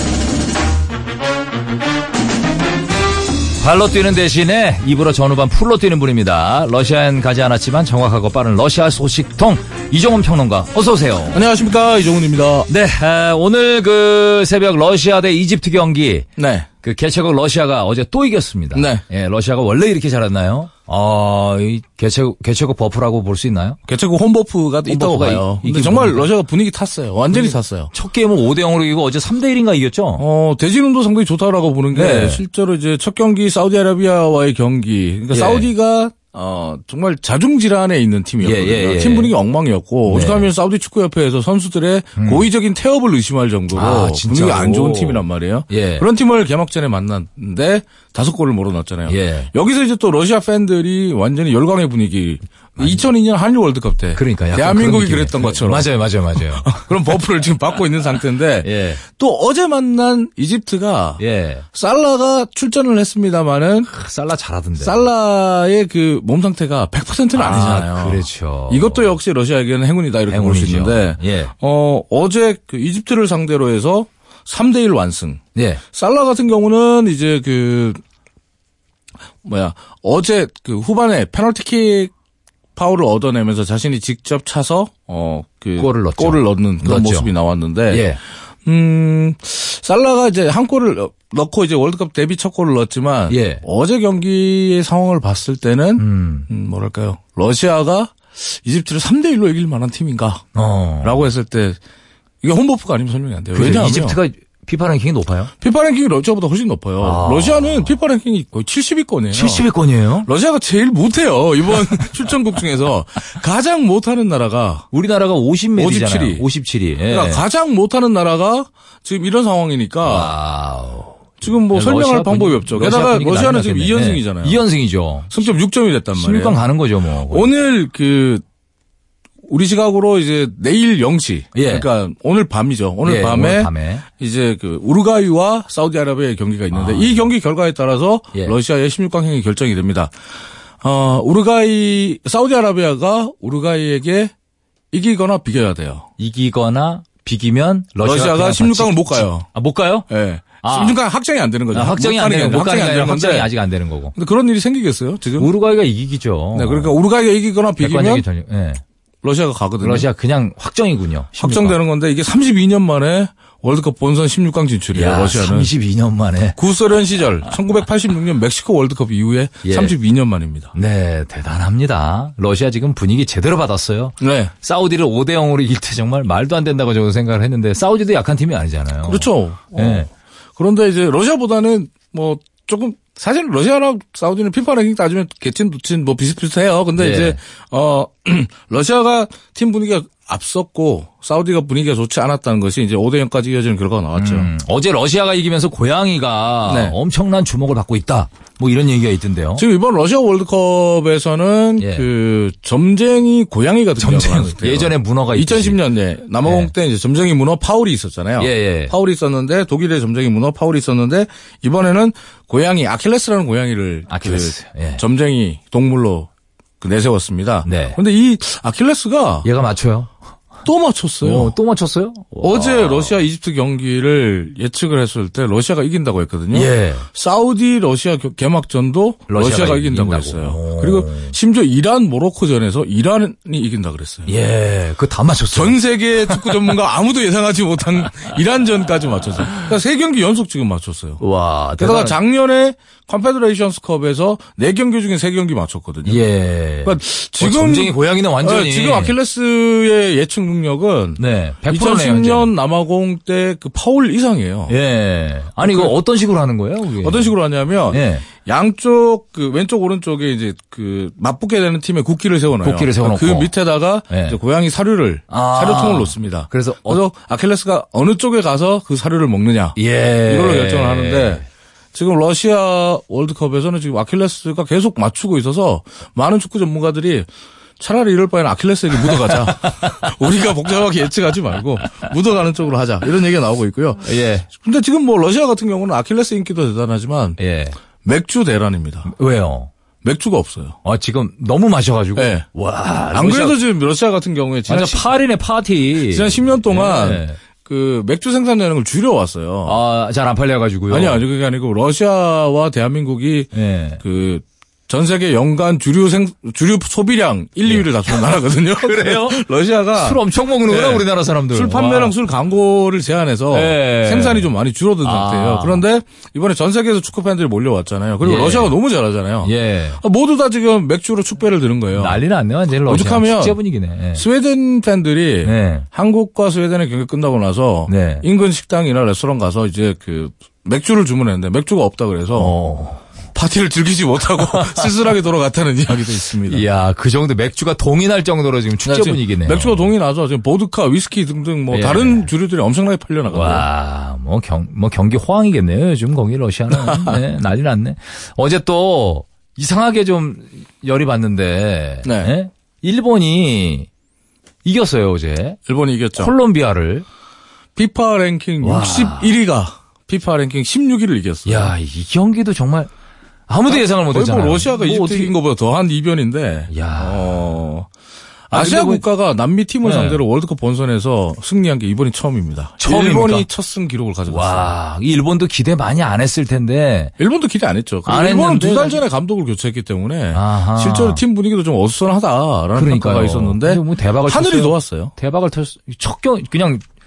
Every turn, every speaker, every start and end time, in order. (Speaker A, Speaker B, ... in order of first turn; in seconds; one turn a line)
Speaker A: 3.6-11.4
Speaker B: 11.3-12.7
Speaker A: 12.7-16.3
Speaker B: 16.4-16.7
Speaker A: 16.8-23.8
Speaker B: 18.7-19.0
Speaker B: 23.9-27.9
Speaker A: 24.9-26.3
Speaker A: 27.3-30.2
Speaker B: 30.2-61.2
Speaker A: 31.9-32.4
Speaker A: 35.3-35.7
Speaker A: 38.4-39.3
Speaker A: 40.1-40.5
Speaker A: 42.2-42.5
Speaker A: 43.7-46.0
Speaker A: 49.1-49.5
Speaker A: 52.8-53.0
Speaker A: 54.1-56.9
Speaker A: 58.6-59.0
Speaker A: 61.2-61.6
Speaker B: 61.7-63.9
Speaker A: 63.9-65.0
Speaker B: 64.8-78.0
Speaker A: 67.3-69.1
Speaker A: 70.3-71.5
Speaker A: 75.5-75.8
Speaker B: 79.4-82.1
Speaker B: 82.8-100.5
Speaker A: 85.8-87.3
Speaker A: 87.9-88.2
Speaker A: 93.3-93.6
Speaker A: 96.0-96.5
Speaker A: 100.5-101.2
Speaker B: 101.0-101.8
Speaker B: 102.4-104.2
Speaker A: 103.5-105.5
Speaker B: 105.6-109.7
Speaker A: 107.0-107.9
Speaker A: 109.3-110.3
Speaker B: 110.2-114.9
Speaker A: 114.9-117.4
Speaker B: 115.8-116.4
Speaker B: 117.1-120.3
Speaker A: 120.0-125.3
Speaker B: 121.4-124.6
Speaker B: 125.3-126.6
Speaker A: 126.2-127.5
Speaker B: 127.3-128.4
Speaker B: 129.5-140.1
Speaker A: 131.5-131.9
Speaker A: 133.0-134.0
Speaker A: 136.7-137.3
Speaker B: 140.8-144.3
Speaker B: 144.9-146.1
Speaker A: 146.2-150.1
Speaker B: 148.0-149.5
Speaker B: 150.1-153.5
Speaker A: 150.6-151.0
Speaker A: 151.7-154.1
Speaker B: 154.1-155.5
Speaker A: 155.4-156.9
Speaker B: 156.5-158.2
Speaker A: 157.8-158.8
Speaker B: 159.2-160.1
Speaker A: 159.8-161.8
Speaker B: 161.4-165.7
Speaker A: 164.9-166.6
Speaker B: 166.6-170.7
Speaker A: 169.6-169.9
Speaker A: 170.7-180.1
Speaker B: 174.2-174.5
Speaker B: 179.0-194.5
Speaker A: 186.9-187.4
Speaker A: 194.2-199.6
Speaker B: 196.7-196.9
Speaker B: 199.6-216.3
Speaker A: 201.8-202.1
Speaker A: 204.0-205.8
Speaker A: 206.4-206.7
Speaker A: 208.4-208.9
Speaker A: 214.1-215.0
Speaker B: 216.8-219.5
Speaker A: 217.7-218.0
Speaker A: 219.4-220.1
Speaker B: 220.6-221.5
Speaker A: 221.2-223.2
Speaker B: 222.4-234.3
Speaker A: 226.5-227.1
Speaker A: 229.3-231.3
Speaker A: 234.3-236.7
Speaker B: 235.5-241.2
Speaker A: 241.2-242.2
Speaker B: 241.8-246.2
Speaker A: 246.0-249.1
Speaker B: 246.8-254.8
Speaker A: 251.2-252.5
Speaker A: 254.7-257.3
Speaker B: 255.6-255.9
Speaker B: 257.0-271.4
Speaker A: 257.9-258.2
Speaker A: 262.6-263.5
Speaker A: 264.1-264.4
Speaker A: 265.3-267.0
Speaker A: 269.8-271.4
Speaker B: 271.9-277.3
Speaker B: 277.8-287.4
Speaker A: 284.0-284.5
Speaker A: 287.4-287.8
Speaker B: 288.0-289.1
Speaker A: 289.1-289.7
Speaker B: 290.0-290.8
Speaker A: 290.8-293.6
Speaker B: 292.1-292.5
Speaker B: 293.1-295.0
Speaker A: 294.7-297.4
Speaker B: 296.1-299.8
Speaker A: 299.6-301.2
Speaker B: 300.9-322.2
Speaker A: 303.5-304.0
Speaker A: 307.7-312.1
Speaker A: 313.5-314.5
Speaker A: 315.0-315.8
Speaker A: 318.2-318.7
Speaker A: 319.4-320.0
Speaker A: 321.9-324.2
Speaker B: 322.9-323.6
Speaker B: 324.1-332.5
Speaker A: 325.4-325.9
Speaker A: 327.9-328.2
Speaker A: 332.4-333.1
Speaker B: 333.3-336.6
Speaker A: 334.4-334.9
Speaker A: 336.5-339.9
Speaker B: 338.8-343.7
Speaker A: 341.7-342.3
Speaker A: 343.3-353.9
Speaker B: 346.7-347.2
Speaker B: 352.0-352.3
Speaker A: 354.6-355.6
Speaker B: 355.7-356.3
Speaker A: 356.2-357.1
Speaker B: 357.8-361.7
Speaker A: 358.6-359.3
Speaker A: 361.4-362.9
Speaker A: 363.5-365.3
Speaker B: 363.7-367.9
Speaker A: 366.7-367.5
Speaker A: 368.5-369.0
Speaker B: 368.5-374.7
Speaker A: 369.8-370.2
Speaker A: 372.8-373.4
Speaker A: 374.3-377.1
Speaker B: 377.2-385.1
Speaker A: 378.1-379.0
Speaker A: 380.3-381.2
Speaker A: 382.7-386.8